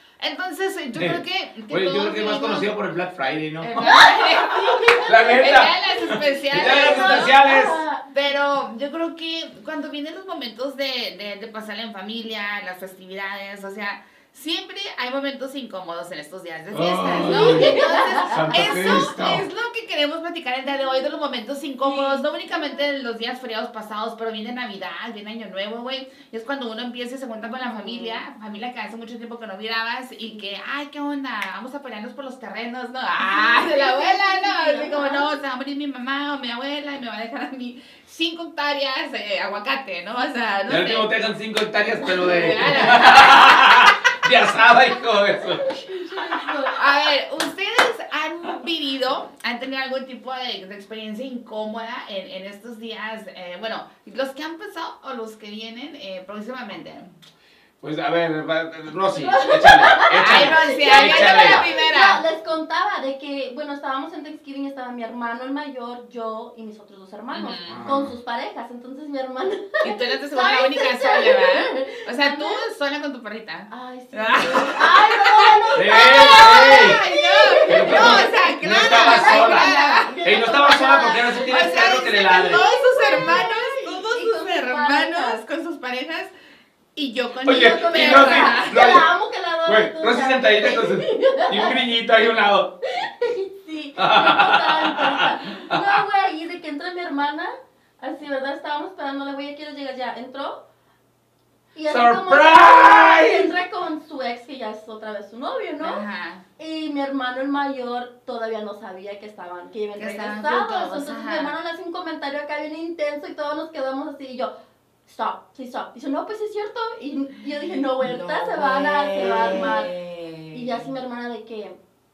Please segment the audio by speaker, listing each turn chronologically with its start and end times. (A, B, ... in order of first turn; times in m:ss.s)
0:00.2-0:02.7 A
0:00.9-0:04.0 B
0:03.6-0:07.4 A
0:03.8-0:05.7 C
0:05.0-0:07.8 B
0:06.3-0:08.0 C
0:08.1-0:41.1 A
0:16.7-0:19.4 B
0:17.1-0:19.1 C
0:20.7-0:21.0 C
0:21.8-0:22.9 C
0:27.5-0:28.2 C
0:33.2-0:35.3 C
0:40.7-0:45.8 B
0:42.1-0:43.8 A
0:42.2-0:43.0 C
0:45.4-0:47.0 C
0:46.7-0:57.1 A
0:57.8-1:01.6 B
0:59.2-1:12.7 C
1:00.1-1:02.2 A
1:07.3-1:07.8 A
1:07.7-1:08.1 B
1:09.8-1:20.1 A
1:13.7-1:25.4 C
1:15.8-1:17.0 B
1:17.6-1:19.7 B
1:20.2-1:22.6 B
1:21.1-1:26.3 A
1:27.0-1:28.8 A
1:27.4-1:29.1 B
1:27.4-1:31.8 C
1:29.6-1:32.7 B
1:32.9-1:40.6 C
1:34.0-1:36.0 B
1:41.7-1:46.0 C
1:41.9-1:43.5 B
1:45.8-1:46.4 A
1:46.6-1:54.5 C
1:50.0-1:51.5 A
1:55.0-1:59.9 C
1:58.0-2:00.9 A
2:00.5-2:01.8 C